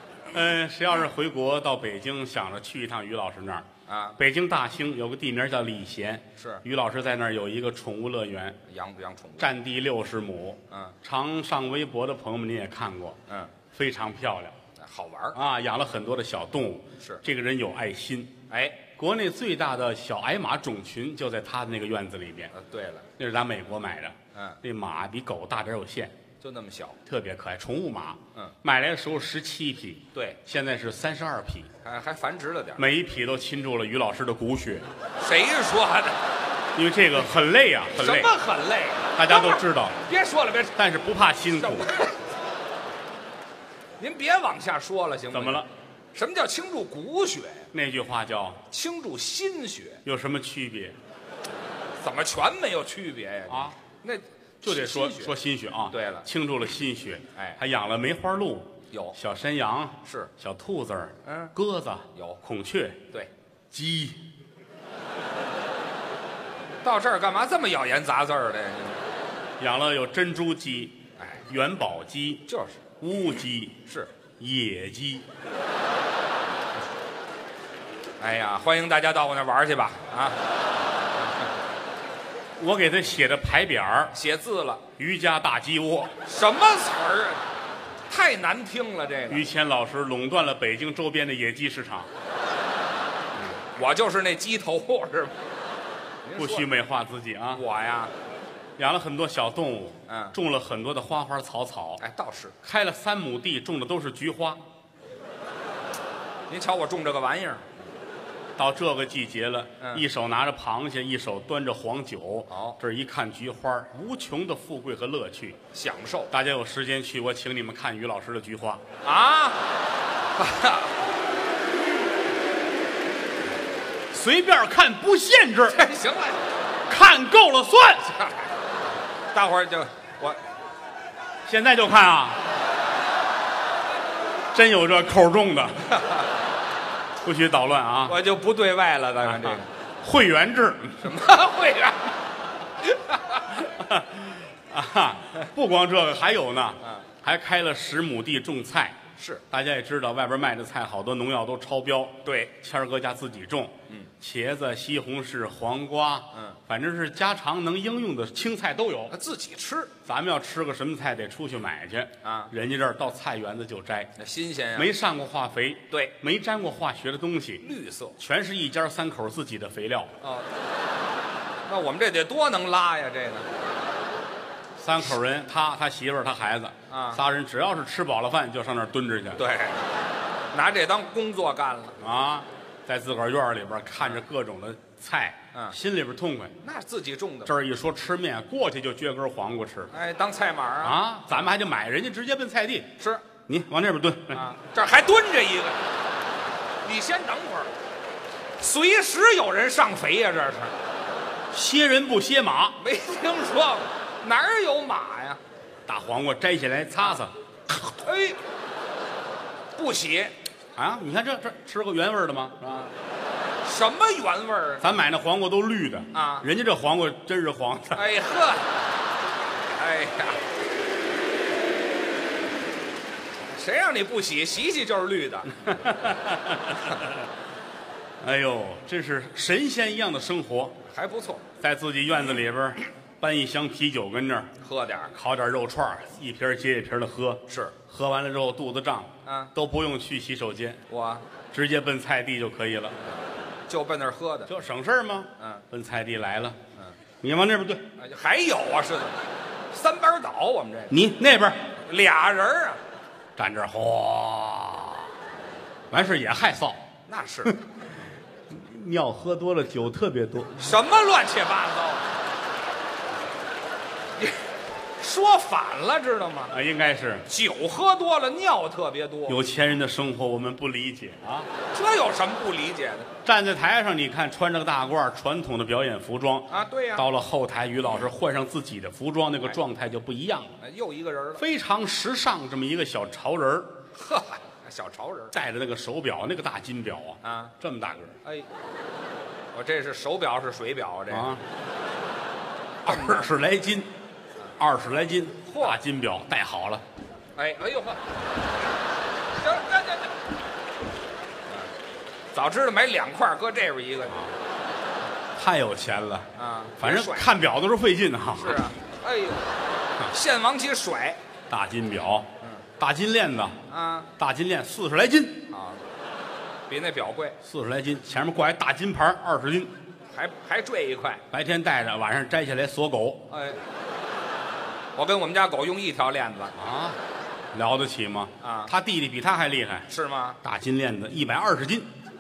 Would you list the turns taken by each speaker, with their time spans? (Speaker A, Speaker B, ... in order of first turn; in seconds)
Speaker A: 0.3-3.7, 4.2-8.6, 9.4-13.2, 13.7-14.6, 15.3-18.3, 18.9-22.5, 23.2-26.1, 27.1-31.7, 32.8-34.9, 36.7-38.3, 39.1-40.0, 40.8-41.9, 45.3-45.7, 47.7-48.6, 50.0-51.0, 53.5-53.7, 54.6-63.0, 63.7-64.2, 69.6-72.4, 73.0-73.9, 74.4-75.3, 82.6-84.1, 85.0-86.1, 89.3-92.1, 96.4-97.6, 98.8-102.0, 102.6-104.6, 108.6-115.6, 116.3-118.8, 124.1-125.8, 126.9-128.1, 131.4-132.4, 134.5-135.9, 137.2-138.2, 139.2-141.1, 143.6-149.0, 149.5-159.1, 160.0-164.1, 164.7-167.6, 168.2-170.1, 174.8-179.4, 182.0-186.5, 187.4-189.9, 190.8-192.9, 193.5-194.4, 201.5-202.8, 205.9-207.3, 210.8-212.9, 214.8-218.0, 225.6-227.1, 228.2-230.8, 231.6-234.5, 235.1-240.8, 241.5-243.0, 244.5-246.6, 247.2-247.8, 250.9-251.7, 253.3-255.1, 255.9-256.8, 258.5-260.8, 266.5-267.2, 269.3-271.5, 273.2-280.6, 281.4-283.7, 285.3-288.2, 291.1-291.4, 292.8-293.9, 294.6-296.8, 305.4-308.7, 311.5-313.6, 314.2-315.5, 317.4-319.7, 321.3-323.3, 326.6-327.0, 327.5-329.9, 330.4-331.9
Speaker B: 3.9-4.2, 6.4-6.6, 8.7-9.5, 10.7-11.0, 13.3-13.5, 14.8-15.4, 18.5-18.8, 22.5-23.1, 24.3-24.6, 26.4-27.0, 31.8-32.9, 35.2-36.2, 37.9-40.8, 41.6-42.2, 44.0-47.7, 48.7-50.0, 52.0-55.4, 55.9-56.3, 58.9-59.1, 60.0-60.3, 61.2-61.5, 62.1-62.4, 66.8-69.0, 71.2-71.4, 72.5-72.8, 78.2-80.4, 84.1-84.8, 86.2-87.4, 88.1-89.5, 93.7-95.3, 96.2-96.7, 97.5-98.1, 100.1-100.3, 102.0-102.5, 106.5-107.7, 109.8-110.0, 112.5-112.8, 115.7-116.3, 119.0-119.7, 120.3-120.9, 125.7-126.5, 128.1-128.5, 129.3-130.4, 135.9-136.2, 138.1-139.7, 141.0-142.2, 142.8-143.6, 146.8-147.1, 149.2-149.4, 152.2-152.5, 156.3-156.6, 159.1-159.9, 162.2-162.5, 164.2-164.9, 165.9-166.1, 167.6-168.2, 170.2-170.5, 171.7-173.5, 176.9-177.2, 179.3-179.9, 180.5-182.0, 186.6-187.5, 189.9-191.5, 193.0-193.2, 194.3-195.8, 196.8-197.7, 198.6-200.8, 202.8-205.4, 207.9-208.4, 209.7-210.3, 213.6-214.9, 216.1-216.5, 217.9-218.7, 219.7-220.4, 223.4-225.9, 230.9-231.4, 234.6-235.1, 237.5-237.8, 239.2-239.5, 240.9-241.2, 243.7-244.5, 245.4-245.6, 248.0-250.9, 251.8-252.8, 257.1-257.6, 260.6-262.1, 265.0-266.5, 267.2-269.4, 271.7-273.1, 276.5-277.1, 280.6-281.4, 283.9-285.3, 287.2-287.5, 289.5-291.4, 292.8-293.3, 295.5-295.8, 297.4-298.0, 299.4-300.1, 302.3-304.3, 306.3-307.3, 308.4-309.5, 310.0-311.2, 313.7-314.1, 315.5-315.8, 316.7-317.4, 320.1-321.2, 323.3-323.6, 324.9-326.6, 328.4-328.7, 329.9-330.4